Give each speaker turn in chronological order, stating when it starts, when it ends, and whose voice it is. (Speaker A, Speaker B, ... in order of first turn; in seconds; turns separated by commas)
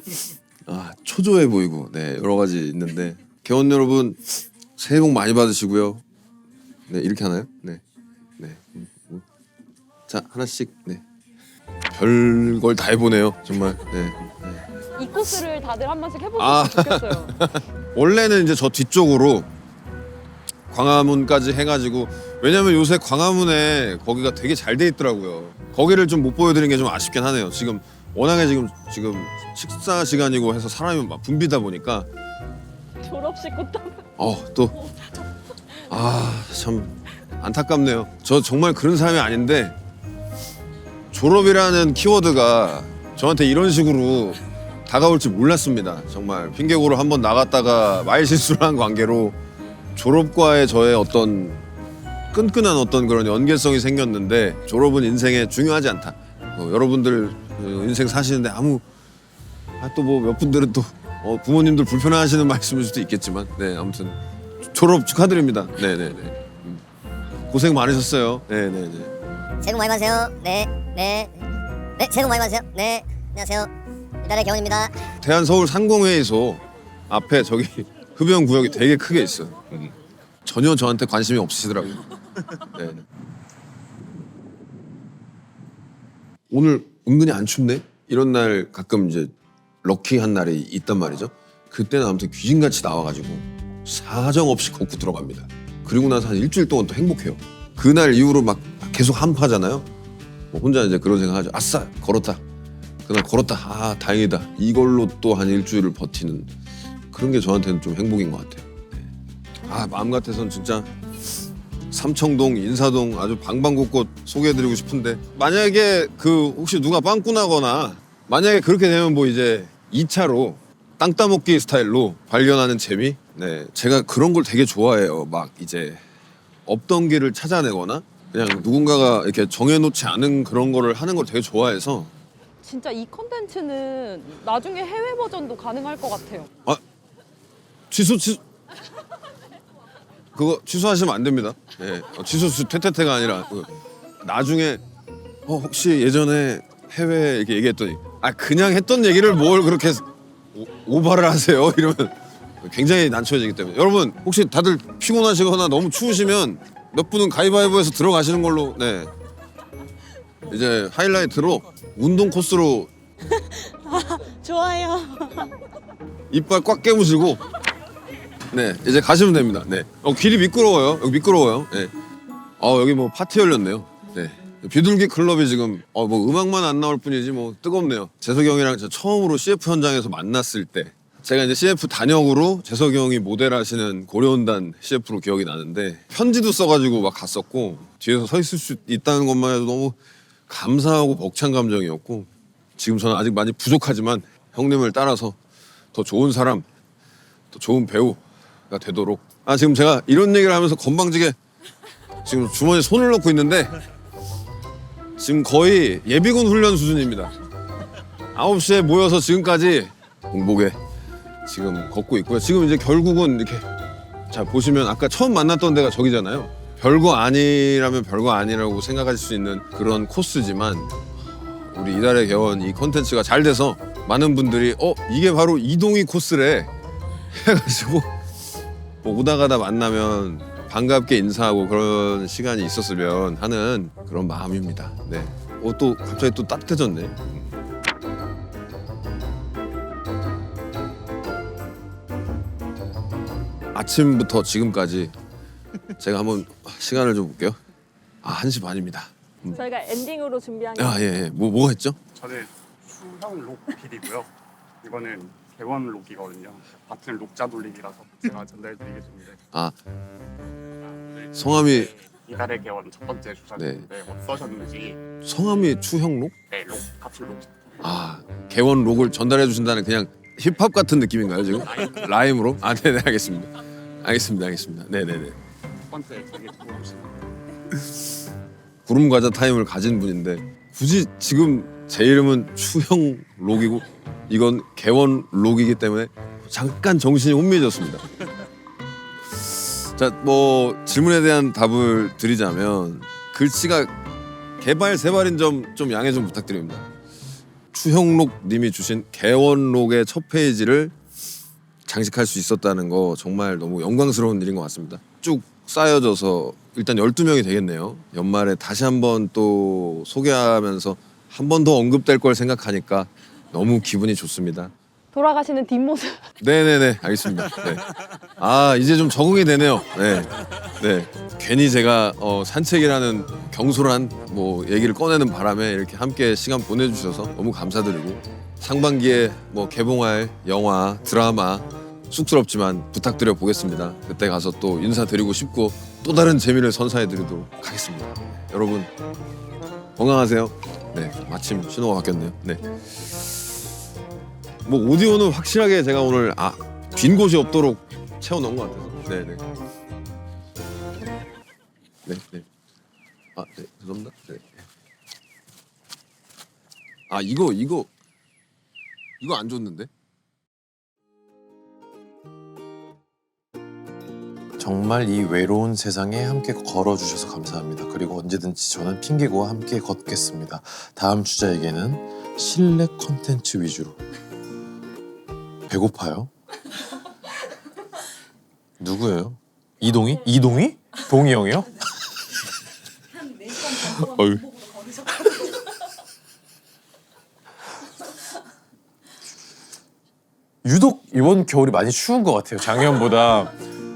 Speaker A: 0.7-6.0, Speaker A: 6.9-7.8, Speaker A: 8.4-9.2, Speaker A: 10.1-11.0, Speaker A: 11.9-14.6, Speaker B: 14.9-17.4, Speaker A: 16.4-19.5, Speaker A: 20.7-32.1, Speaker C: 33.0-34.0, Speaker A: 34.2-34.8, Speaker A: 35.9-39.8, Speaker A: 41.1-49.4, Speaker A: 50.0-51.6, Speaker A: 52.3-58.8, Speaker A: 59.8-66.8, Speaker A: 67.5-69.1, Speaker D: 69.6-71.4, Speaker D: 72.0-73.7, Speaker D: 74.2-74.9, Speaker A: 75.2-79.9, Speaker A: 80.5-82.0, Speaker A: 82.6-83.0, Speaker A: 86.5-99.9, Speaker A: 100.5-102.4, Speaker A: 103.1-106.5, Speaker A: 107.1-109.1, Speaker A: 109.7-110.9, Speaker A: 111.9-126.0, Speaker A: 126.7-132.1, Speaker B: 132.6-136.5, Speaker A: 137.9-138.4, Speaker A: 140.3-144.8, Speaker A: 145.5-159.1, Speaker A: 160.5-162.9, Speaker E: 163.3-165.5, Speaker A: 166.3-167.4, Speaker A: 168.5-171.9, Speaker A: 172.6-190.0, Speaker A: 190.5-195.4, Speaker A: 195.9-196.7, Speaker A: 197.5-201.4, Speaker A: 202.2-203.8, Speaker A: 205.2-207.3, Speaker A: 208.3-210.8, Speaker A: 211.5-213.7, Speaker A: 214.3-226.7, Speaker A: 227.3-228.1, Speaker A: 229.0-237.5, Speaker A: 243.7-245.1, Speaker A: 246.0-247.6, Speaker A: 248.2-249.6, Speaker C: 249.5-251.1, Speaker A: 250.8-252.0, Speaker F: 252.1-254.3, Speaker F: 254.8-259.4, Speaker F: 260.8-265.1, Speaker A: 261.4-261.9, Speaker A: 263.6-263.9, Speaker A: 265.2-266.4, Speaker F: 266.5-267.8, Speaker A: 267.8-275.4, Speaker F: 271.6-272.1, Speaker F: 275.9-277.3, Speaker A: 278.9-288.1, Speaker A: 289.4-294.0, Speaker A: 294.6-296.9, Speaker A: 297.7-300.9, Speaker A: 301.9-314.7, Speaker B: 315.1-316.3, Speaker A: 316.4-338.9, Speaker A: 340.0-342.7, Speaker A: 344.6-349.4, Speaker A: 352.1-352.5, Speaker A: 353.4-354.6, Speaker A: 357.1-357.9, Speaker A: 359.2-359.9, Speaker G: 364.6-374.0, Speaker G: 375.7-376.3, Speaker G: 378.8-381.9, Speaker G: 383.5-384.5, Speaker G: 390.6-393.6